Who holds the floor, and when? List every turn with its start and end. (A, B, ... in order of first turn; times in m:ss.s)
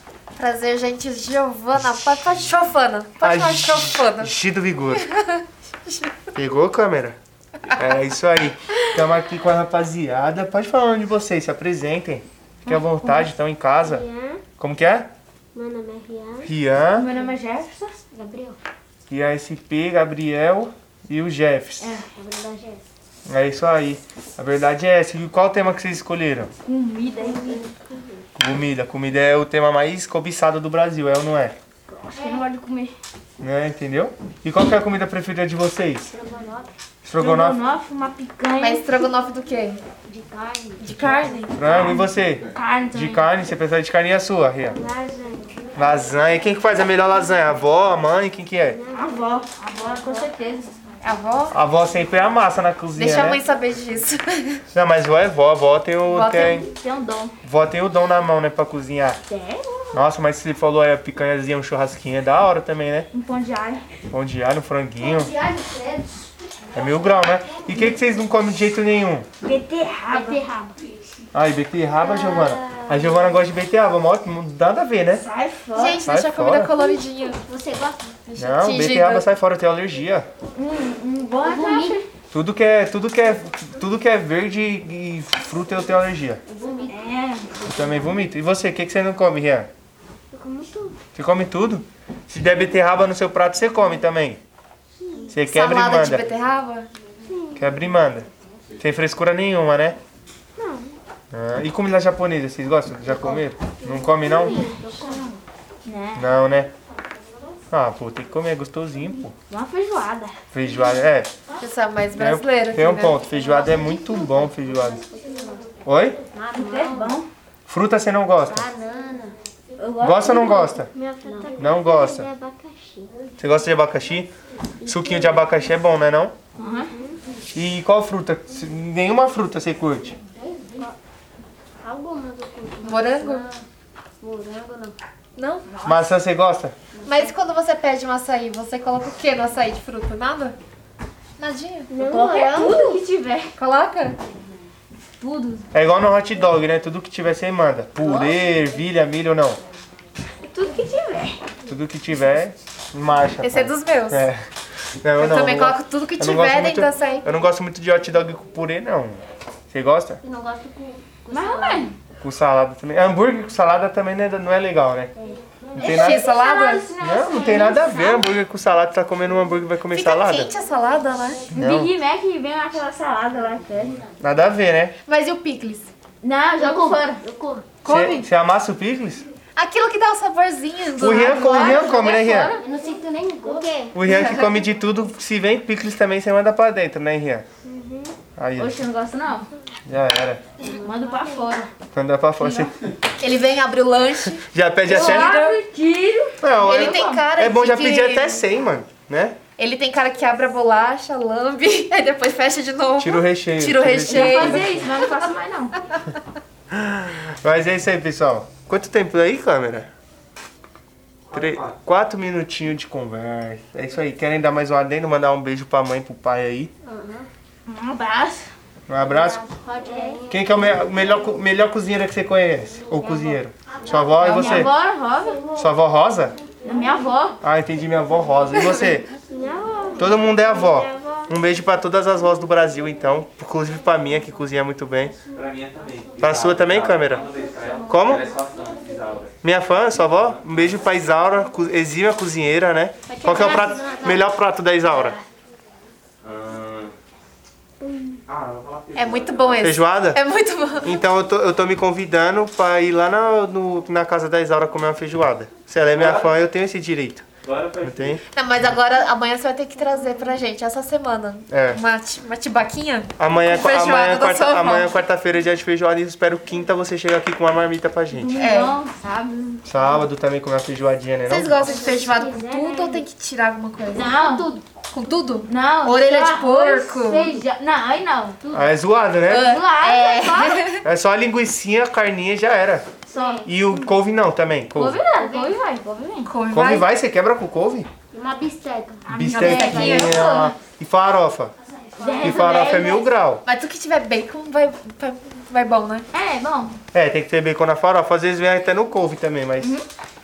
0:00.4-0:04.3 A
0:03.2-0:05.1 B
0:05.0-0:06.2 A
0:06.3-0:07.2 B
0:07.8-0:14.1 B
0:12.7-0:13.3 C
0:13.8-0:14.4 D
0:14.6-0:15.1 B
0:15.5-0:16.5 D
0:16.4-0:17.1 B
0:16.9-0:17.9 C
0:18.1-0:18.6 D
0:19.1-0:21.9 B
0:21.8-0:22.1 C
0:22.2-0:22.8 D
0:23.3-0:26.5 B
0:26.6-0:27.7 C
0:27.2-0:28.3 D
0:28.4-0:31.6 B
0:31.9-0:32.4 D
0:32.1-0:33.0 C
0:33.4-0:36.1 B
0:36.1-0:36.7 D
0:37.0-0:37.6 B
0:37.2-0:39.1 C
0:38.6-0:39.8 A
0:40.0-0:41.5 D
0:40.8-0:41.6 A
0:41.5-0:44.8 B
0:41.6-0:43.3 C
0:44.7-0:45.9 D
0:45.8-0:48.8 B
0:48.6-0:49.2 D
0:48.9-0:50.8 C
0:50.0-0:50.3 D
0:51.0-0:51.5 A
0:51.5-0:53.4 B
0:53.0-0:54.6 A
0:54.7-0:56.7 B
0:56.1-0:56.6 A
0:56.3-0:57.3 C
0:57.4-0:59.2 B
0:59.3-1:00.0 C
0:59.9-1:03.1 B
1:03.1-1:03.8 C
1:04.1-1:05.3 B
1:05.0-1:06.3 D
1:06.7-1:09.3 B
1:09.4-1:10.5 C
1:10.1-1:10.7 D
1:11.3-1:15.2 B
1:12.0-1:13.3 D
1:15.1-1:16.0 C
1:15.8-1:17.4 A
1:16.0-1:16.7 B
1:16.8-1:18.2 D
1:18.3-1:19.3 A
1:18.4-1:20.3 B
1:20.6-1:22.1 C
1:21.4-1:22.0 D
1:22.3-1:26.4 B
1:26.5-1:27.0 D
1:26.9-1:27.5 C
1:27.6-1:29.7 B
1:30.3-1:31.0 D
1:31.2-1:34.4 B
1:35.0-1:35.4 D
1:35.3-1:36.3 B
1:35.4-1:36.9 A
1:37.2-1:37.8 D
1:37.6-1:38.3 B
1:38.8-1:40.0 B
1:40.6-1:40.9 D
1:41.3-1:44.6 B
1:43.1-1:45.4 D
1:44.5-1:45.2 C
1:45.8-1:46.3 C
1:46.2-1:46.7 B
1:47.7-1:49.3 B
1:49.5-1:50.4 C
1:50.5-1:51.3 B
1:51.6-1:53.3 A
1:52.2-1:55.0 B
1:53.4-1:55.7 D
1:55.8-1:56.2 B
1:56.3-1:57.2 D
1:56.5-1:57.3 C
1:57.7-1:58.6 B
1:58.4-1:59.4 D
1:59.8-2:00.8 C
2:00.0-2:00.9 B
2:00.8-2:03.2 D
2:01.6-2:02.3 B
2:03.4-2:04.3 B
2:04.8-2:05.5 D
2:04.8-2:06.3 B
2:06.6-2:06.9 C
2:06.9-2:07.2 D
2:07.5-2:10.2 B
2:10.4-2:11.0 D
2:11.8-2:13.6 D
2:12.8-2:13.5 A
2:14.2-2:15.0 D
2:15.4-2:15.6 A
2:15.7-2:16.1 C
2:15.8-2:16.8 B
2:17.0-2:17.3 D
2:17.0-2:20.6 A
2:21.4-2:21.9 A
2:21.9-2:23.0 D
2:22.0-2:23.5 C
2:23.6-2:24.2 A
2:25.2-2:25.7 C
2:25.7-2:29.6 B
2:28.0-2:28.3 C
2:30.4-2:31.4 C
2:31.7-2:34.4 B
2:33.4-2:34.3 A
2:35.0-2:40.2 B
2:35.2-2:37.3 A
2:40.2-2:41.9 D
2:41.3-2:42.0 C
2:42.2-2:45.1 B
2:45.2-2:45.9 D
2:45.8-2:46.2 B
2:45.8-2:48.4 C
2:45.9-2:46.9 A
2:47.0-2:50.5 B
2:49.9-2:51.5 A
2:51.5-2:51.9 B
2:51.6-2:54.0 C
2:54.2-2:54.9 B
2:55.1-2:55.9 A
2:56.2-2:57.2 C
2:56.6-2:57.8 D
2:57.8-2:58.3 A
2:57.8-2:59.2 B
2:59.6-3:02.0 A
3:01.0-3:02.5 B
3:01.1-3:02.6 C
3:02.5-3:04.0 D
3:03.9-3:07.5 B
3:04.0-3:04.6 A
3:07.6-3:08.2 D
3:08.4-3:08.8 B
3:08.6-3:09.5 C
3:09.9-3:10.4 B
3:10.6-3:11.7 C
3:10.6-3:11.5 D
3:11.9-3:12.7 B
3:12.4-3:12.7 C
3:13.2-3:15.6 A
3:14.4-3:15.3 B
3:14.9-3:17.2 C
3:16.4-3:19.4 B
3:16.6-3:18.4 A
3:19.5-3:25.1 A
3:23.0-3:24.8 B
3:24.1-3:25.8 C
3:26.7-3:29.9 B
3:31.3-3:36.7 B
3:31.3-3:31.7 E
3:36.8-3:37.3 D
3:37.7-3:38.5 C
3:38.9-3:39.4 B
3:39.2-3:40.2 C
3:39.4-3:41.4 D
3:40.3-3:44.7 B
3:42.9-3:44.7 D
3:44.2-3:45.4 C
3:45.3-3:45.7 D
3:45.6-3:46.4 B
3:46.6-3:47.4 C
3:47.4-3:49.1 B
3:49.3-3:51.3 D
3:50.0-3:55.2 B
3:55.3-3:59.4 E
3:56.2-3:57.3 B
3:57.8-3:58.3 B
3:59.4-4:05.2 B
4:00.1-4:00.7 E
4:03.1-4:04.2 D
4:06.2-4:06.9 E
4:07.8-4:08.2 D
4:08.3-4:09.8 E
4:09.0-4:11.0 A
4:09.6-4:10.2 B
4:10.8-4:17.3 B
4:15.9-4:16.3 E
4:17.4-4:18.2 E
4:17.8-4:18.2 B
4:18.2-4:24.9 A
4:21.5-4:21.8 B
4:23.2-4:28.4 B
4:28.1-4:29.9 C
4:28.3-4:28.8 A
4:29.7-4:31.9 B
4:31.3-4:34.2 A
4:31.6-4:33.1 D
4:33.9-4:34.5 C
4:34.1-4:34.7 D
4:34.8-4:37.3 A
4:35.5-4:38.4 C
4:38.5-4:39.5 B
4:39.3-4:40.8 A
4:39.3-4:40.7 C
4:40.8-4:42.9 B
4:43.1-4:43.9 C
4:43.2-4:43.4 D
4:43.4-4:45.0 B
4:44.7-4:46.3 C
4:45.1-4:45.6 D
4:46.3-4:46.9 A
4:46.5-4:47.9 B
4:48.1-4:50.2 D
4:49.0-4:50.5 C
4:49.1-4:51.5 B
4:49.3-4:50.5 A
4:52.0-4:53.1 C
4:52.0-4:52.3 D
4:52.2-4:53.4 B
4:53.4-4:56.1 A
4:56.1-4:56.8 C
4:56.9-4:59.8 B
4:59.6-4:59.9 C